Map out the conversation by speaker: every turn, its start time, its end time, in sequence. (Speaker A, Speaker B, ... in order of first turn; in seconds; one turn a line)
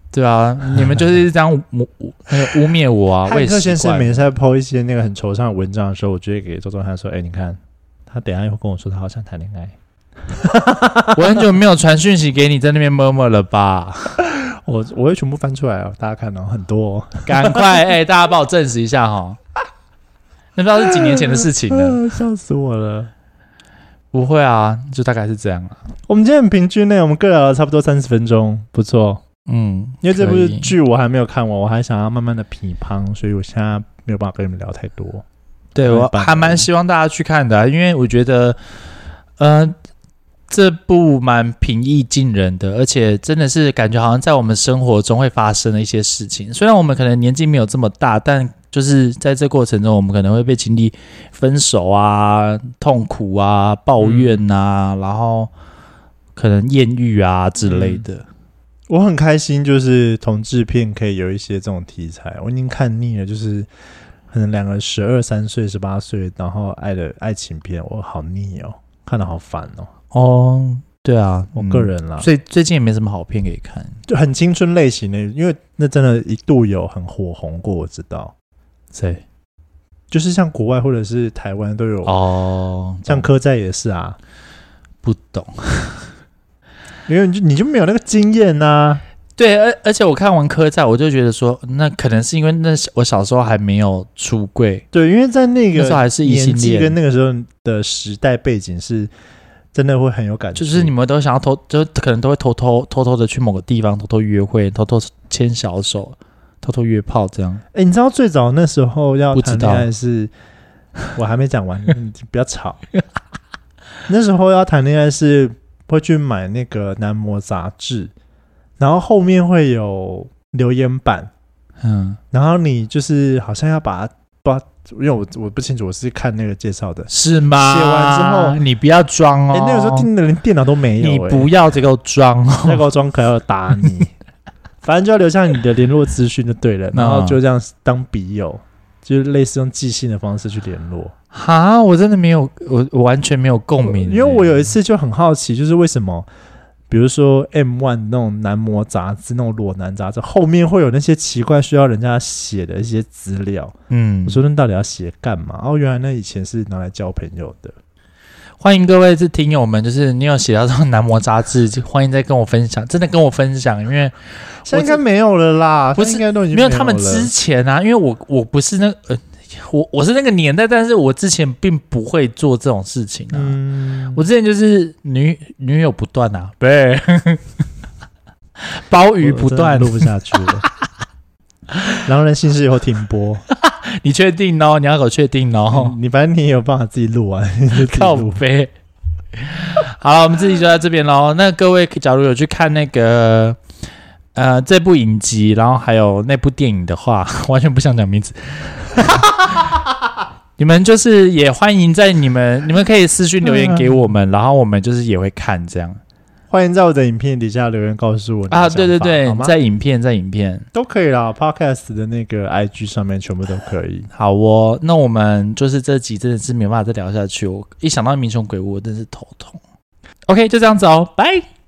Speaker A: 0.1-4.3
Speaker B: 0.7-1.1
Speaker B: 3.2-9.8
Speaker B: 10.3-11.5
Speaker A: 11.1-14.2
Speaker B: 14.2-17.8
Speaker A: 17.2-19.4
Speaker A: 20.6-22.0
Speaker B: 20.8-23.1
Speaker A: 24.1-25.8
Speaker B: 26.1-29.2
Speaker A: 29.5-30.7
Speaker B: 30.0-35.2
Speaker A: 35.7-38.6
Speaker B: 35.8-36.7
Speaker A: 39.4-39.7
Speaker A: 40.5-55.5
Speaker B: 54.0-54.5
Speaker A: 56.3-58.2
Speaker B: 57.6-58.0
Speaker B: 58.9-63.7
Speaker B: 64.3-69.9
Speaker A: 70.1-74.0
Speaker B: 71.5-72.3
Speaker B: 74.1-78.3
Speaker A: 78.9-79.2
Speaker B: 80.1-82.2
Speaker A: 82.0-83.3
Speaker B: 83.0-84.2
Speaker A: 85.0-86.1
Speaker B: 87.1-89.0
Speaker A: 89.4-94.8
Speaker B: 94.9-99.1
Speaker A: 95.7-97.0
Speaker B: 99.7-100.9
Speaker A: 100.5-107.6
Speaker B: 107.7-110.3
Speaker A: 109.3-109.9
Speaker B: 111.1-112.8
Speaker B: 114.1-118.1
Speaker B: 118.8-121.3
Speaker A: 121.8-122.2
Speaker B: 122.3-128.6
Speaker A: 127.1-130.1
Speaker B: 129.5-131.5
Speaker A: 131.0-132.8
Speaker B: 132.6-134.1
Speaker B: 134.8-141.1
Speaker A: 136.9-137.4
Speaker A: 141.3-144.7
Speaker B: 143.8-146.3
Speaker B: 146.9-153.7
Speaker A: 153.9-154.4
Speaker B: 154.2-157.8
Speaker A: 158.6-165.0
Speaker B: 164.7-167.3
Speaker A: 166.0-173.6
Speaker B: 173.3-174.2
Speaker A: 174.1-177.5
Speaker A: 178.6-180.4
Speaker B: 179.2-180.7
Speaker B: 182.0-183.4
Speaker A: 183.5-185.9
Speaker B: 185.7-188.4
Speaker A: 187.7-188.7
Speaker A: 189.4-193.6
Speaker A: 194.3-199.8
Speaker A: 200.6-206.0
Speaker B: 203.4-204.0
Speaker B: 206.5-209.6
Speaker A: 208.5-210.7
Speaker B: 210.7-214.1
Speaker A: 214.1-219.6
Speaker A: 220.3-221.5